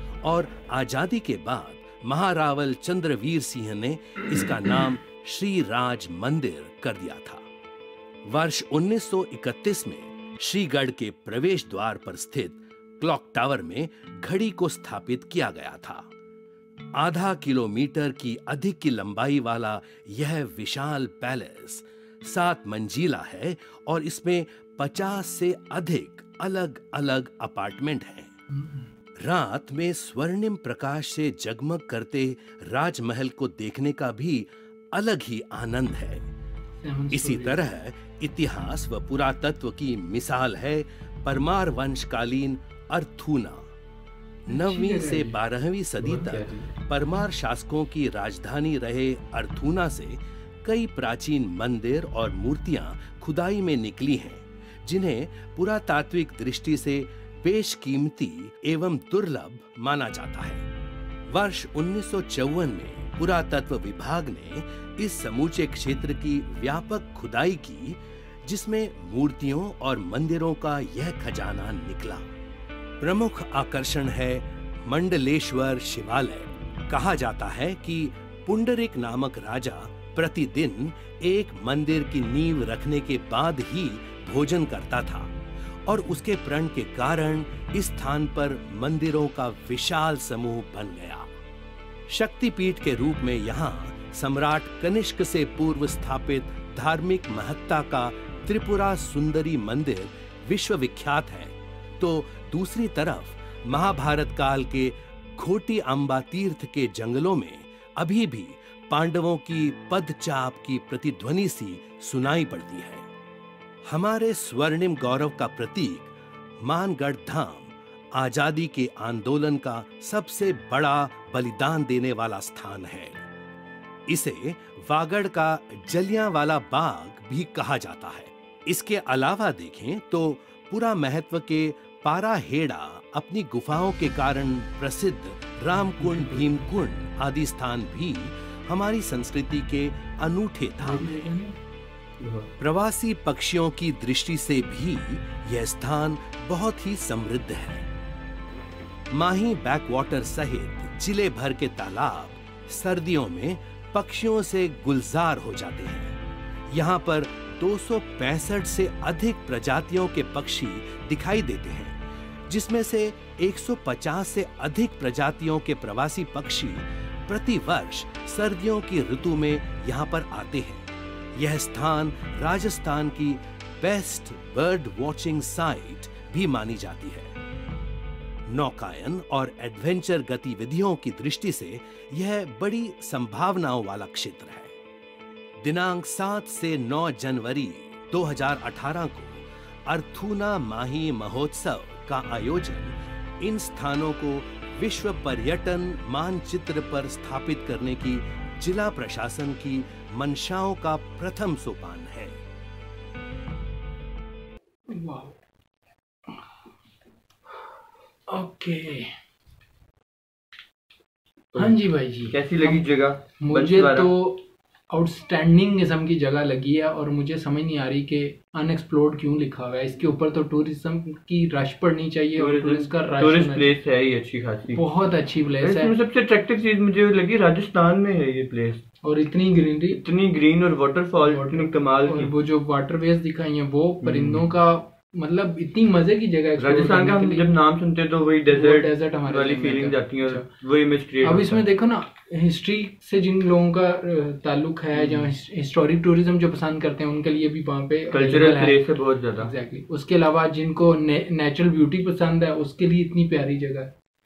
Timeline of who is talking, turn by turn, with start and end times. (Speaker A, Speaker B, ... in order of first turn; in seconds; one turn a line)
Speaker A: 0.2-7.4
Speaker A: 8.3-16.1
Speaker A: 16.9-28.3
Speaker B: 28.5-28.9
Speaker A: 29.2-36.3
Speaker B: 36.8-37.6
Speaker A: 37.1-43.7
Speaker A: 44.5-60.6
Speaker B: 44.5-45.4
Speaker C: 46.0-46.7
Speaker A: 61.3-72.3
Speaker A: 73.0-85.3
Speaker A: 85.8-91.3
Speaker A: 92.1-113.1
Speaker A: 113.9-123.2
Speaker A: 124.1-141.3
Speaker B: 135.7-136.6
Speaker B: 140.8-141.6
Speaker C: 142.2-142.5
Speaker A: 142.6-147.9
Speaker A: 149.1-156.2
Speaker A: 156.7-177.3
Speaker A: 178.5-184.7
Speaker A: 185.6-202.4
Speaker B: 204.9-205.4
Speaker B: 208.3-209.1
Speaker B: 211.6-212.9
Speaker C: 212.3-214.1
Speaker B: 213.4-223.8
Speaker C: 222.4-224.8
Speaker B: 224.7-225.9
Speaker C: 225.6-228.8
Speaker B: 229.0-230.0
Speaker C: 229.9-232.3
Speaker B: 231.2-237.5
Speaker C: 234.0-234.5
Speaker C: 236.6-241.6
Speaker B: 238.5-240.5
Speaker B: 241.2-253.9
Speaker C: 244.9-245.3
Speaker C: 248.1-249.5